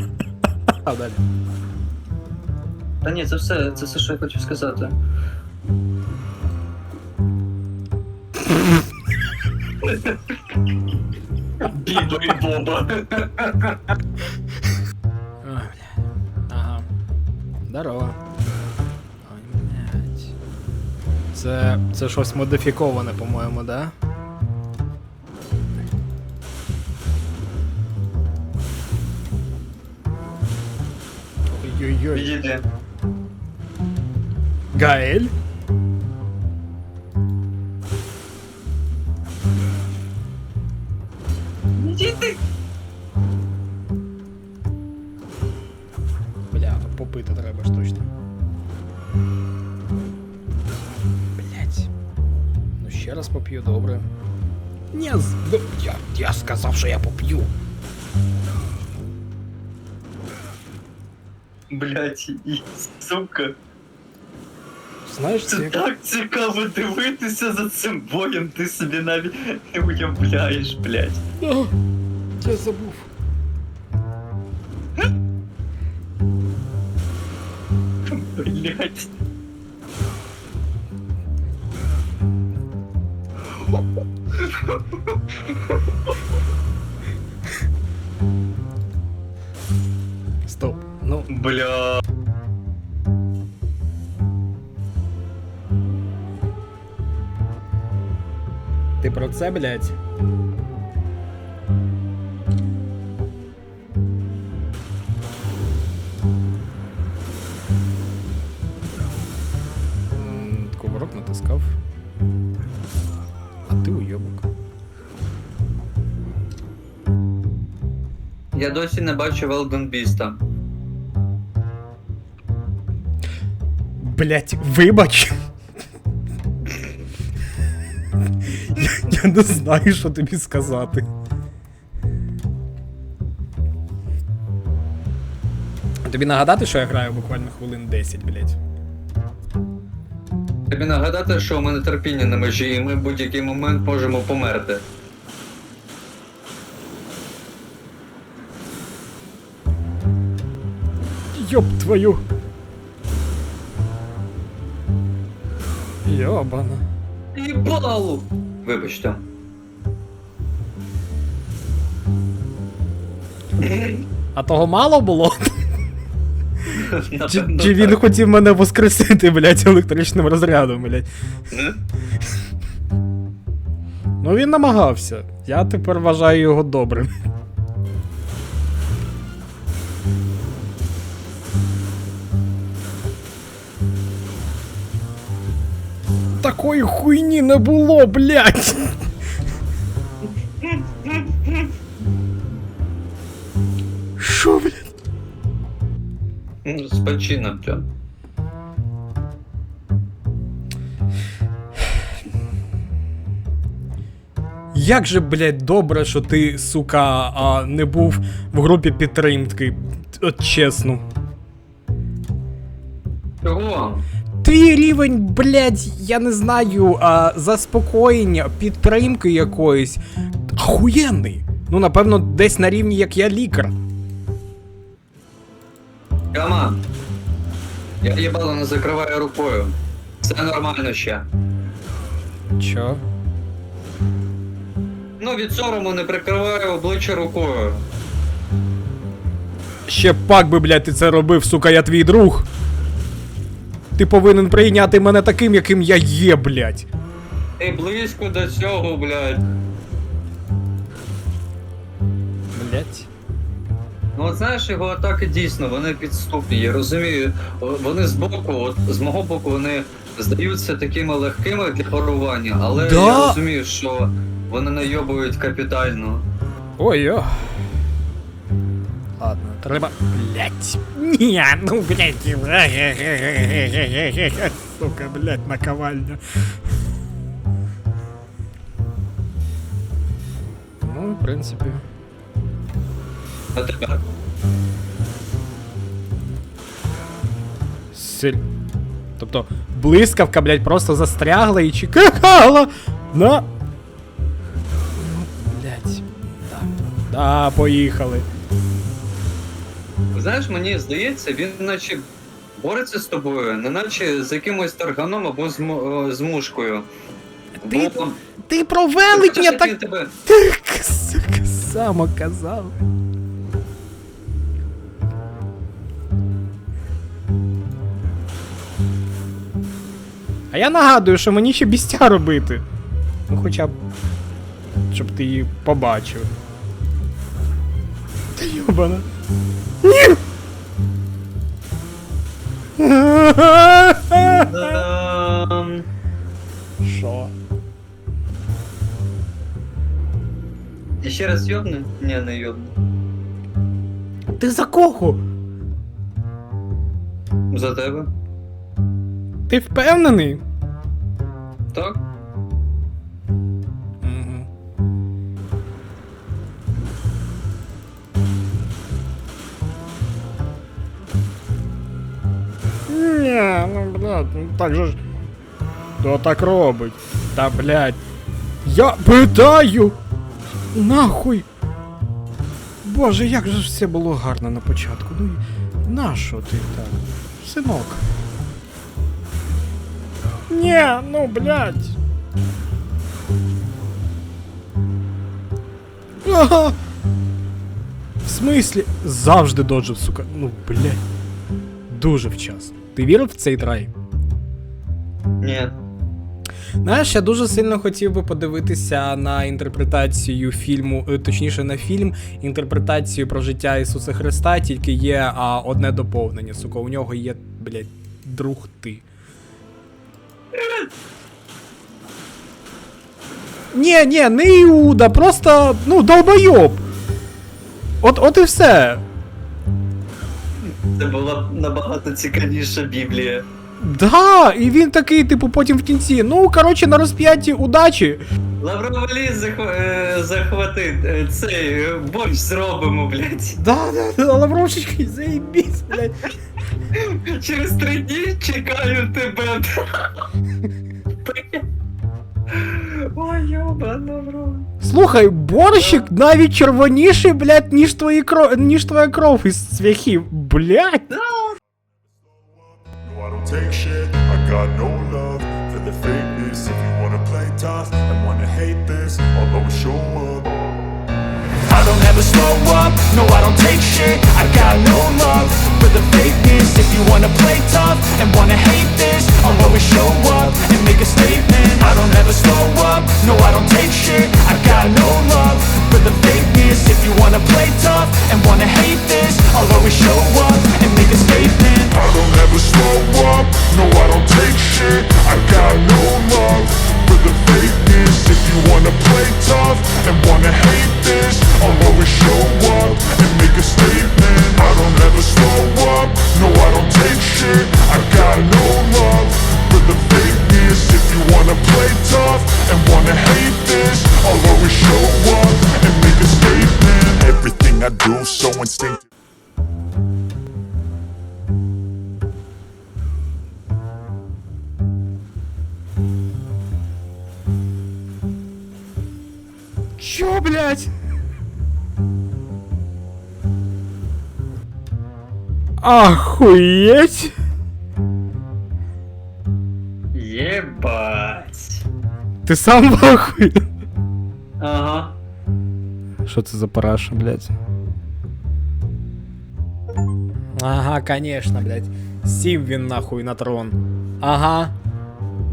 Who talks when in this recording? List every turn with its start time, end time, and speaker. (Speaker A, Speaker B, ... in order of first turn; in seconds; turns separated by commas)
Speaker A: 0.8-1.2, Speaker B: 3.0-5.0, Speaker B: 9.8-10.6, Speaker B: 11.6-13.8, Speaker A: 15.4-16.0, Speaker A: 16.5-16.9, Speaker A: 17.7-18.2, Speaker A: 19.2-20.3, Speaker A: 21.3-23.9, Speaker A: 31.5-32.5, Speaker B: 32.1-32.6, Speaker A: 34.7-35.3, Speaker B: 41.8-42.4, Speaker A: 46.5-48.1, Speaker A: 51.4-51.9, Speaker A: 52.8-54.1, Speaker A: 54.9-57.5, Speaker B: 61.7-63.5, Speaker A: 65.1-65.8, Speaker B: 65.5-71.2, Speaker A: 71.4-71.8, Speaker A: 72.4-73.1, Speaker B: 78.1-79.1, Speaker B: 84.4-85.8, Speaker A: 90.5-91.3, Speaker B: 91.3-92.0, Speaker A: 99.0-99.9, Speaker A: 110.2-111.8, Speaker A: 113.7-114.5, Speaker B: 118.5-120.4, Speaker A: 124.0-125.3, Speaker A: 128.4-131.1, Speaker A: 136.1-138.6, Speaker B: 140.7-144.8, Speaker A: 151.3-152.2, Speaker A: 156.1-156.8, Speaker B: 157.3-159.2, Speaker B: 163.6-164.1, Speaker A: 164.3-165.5, Speaker B: 166.7-168.0, Speaker A: 167.3-171.1, Speaker B: 171.5-171.8, Speaker A: 174.2-177.1, Speaker A: 186.4-189.0, Speaker B: 190.6-191.7, Speaker A: 194.2-194.9, Speaker B: 196.6-197.8, Speaker A: 204.7-211.0, Speaker B: 213.4-214.0, Speaker A: 214.4-220.0, Speaker A: 220.5-223.8, Speaker B: 226.3-226.8, Speaker B: 228.0-231.3, Speaker A: 232.6-233.0, Speaker B: 235.2-237.8, Speaker A: 239.9-242.5, Speaker A: 244.0-246.9, Speaker B: 247.6-249.4, Speaker A: 252.5-253.1, Speaker B: 254.2-266.3, Speaker A: 262.8-263.4, Speaker A: 266.8-267.5, Speaker A: 269.2-276.2, Speaker A: 280.8-281.8, Speaker B: 283.6-284.0, Speaker A: 287.9-288.4, Speaker A: 289.2-293.5, Speaker A: 294.9-298.2, Speaker B: 300.1-302.1, Speaker B: 302.6-306.9, Speaker A: 307.6-309.8, Speaker B: 307.6-308.2, Speaker B: 309.1-310.1, Speaker A: 310.3-312.8, Speaker A: 320.5-322.6, Speaker A: 323.3-323.8, Speaker A: 324.9-326.3, Speaker A: 328.4-329.1, Speaker A: 329.8-330.2, Speaker A: 332.8-334.8, Speaker B: 334.1-335.9, Speaker A: 336.8-337.3, Speaker B: 341.0-342.7, Speaker A: 344.4-345.2, Speaker B: 347.5-348.1, Speaker A: 349.5-350.4, Speaker B: 351.7-352.0, Speaker A: 354.0-354.5, Speaker A: 362.9-365.0, Speaker A: 366.0-368.0, Speaker A: 368.6-370.0, Speaker A: 370.7-371.5, Speaker A: 372.8-378.0, Speaker A: 380.5-382.0, Speaker A: 386.2-386.8, Speaker A: 388.2-391.0, Speaker A: 391.9-393.9, Speaker B: 395.4-395.7, Speaker A: 396.8-409.0, Speaker B: 410.5-410.9, Speaker A: 413.7-416.8, Speaker A: 418.0-419.0, Speaker B: 420.7-423.4, Speaker A: 423.8-428.2, Speaker B: 428.6-433.6, Speaker A: 433.6-436.2, Speaker B: 436.9-440.3, Speaker B: 441.2-441.7, Speaker B: 442.5-444.7, Speaker A: 444.8-451.1, Speaker B: 445.7-446.1, Speaker B: 451.1-451.6, Speaker C: 452.9-460.6, Speaker C: 461.7-509.0, Speaker A: 520.0-520.9, Speaker A: 525.8-527.3, Speaker B: 530.1-531.8, Speaker A: 532.5-533.6, Speaker B: 534.6-535.1, Speaker A: 536.3-537.5, Speaker A: 540.6-544.7